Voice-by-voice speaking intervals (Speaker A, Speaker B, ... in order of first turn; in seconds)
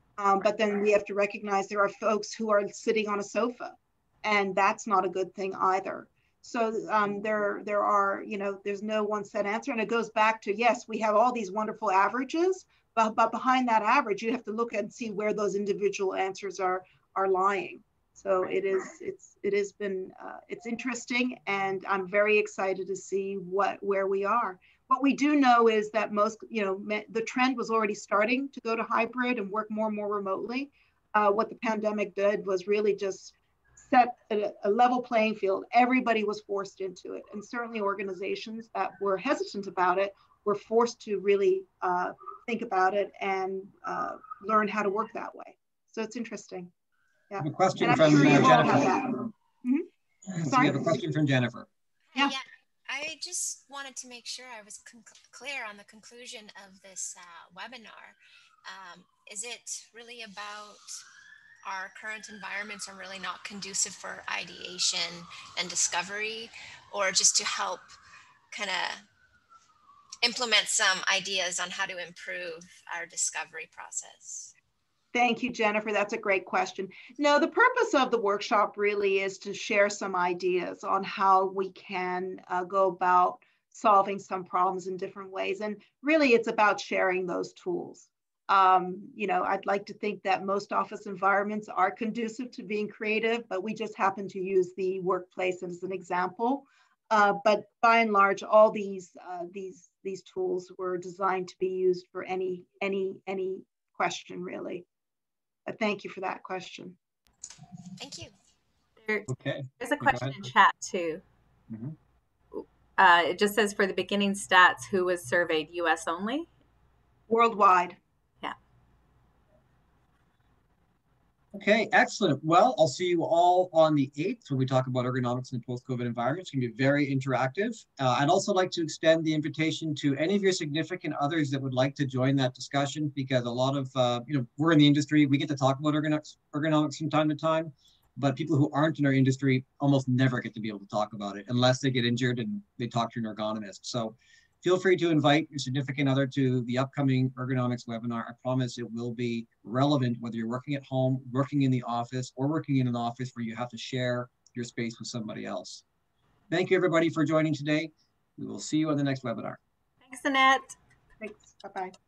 Speaker A: 0.2-46.7, 47.3-49.9, 50.4-50.8, 75.1-104.8, 105.7-107.0, 117.3-118.0, 161.2-161.9
Speaker B: 47.4-49.2, 50.3-51.7, 109.3-110.5, 111.7-112.0, 121.5-155.8, 156.5-159.6
Speaker C: 52.1-61.0, 61.6-67.9, 68.5-69.0, 70.2-74.5, 108.0-108.3
Speaker D: 109.0-109.3, 109.8-111.2, 112.5-116.5, 160.0-160.8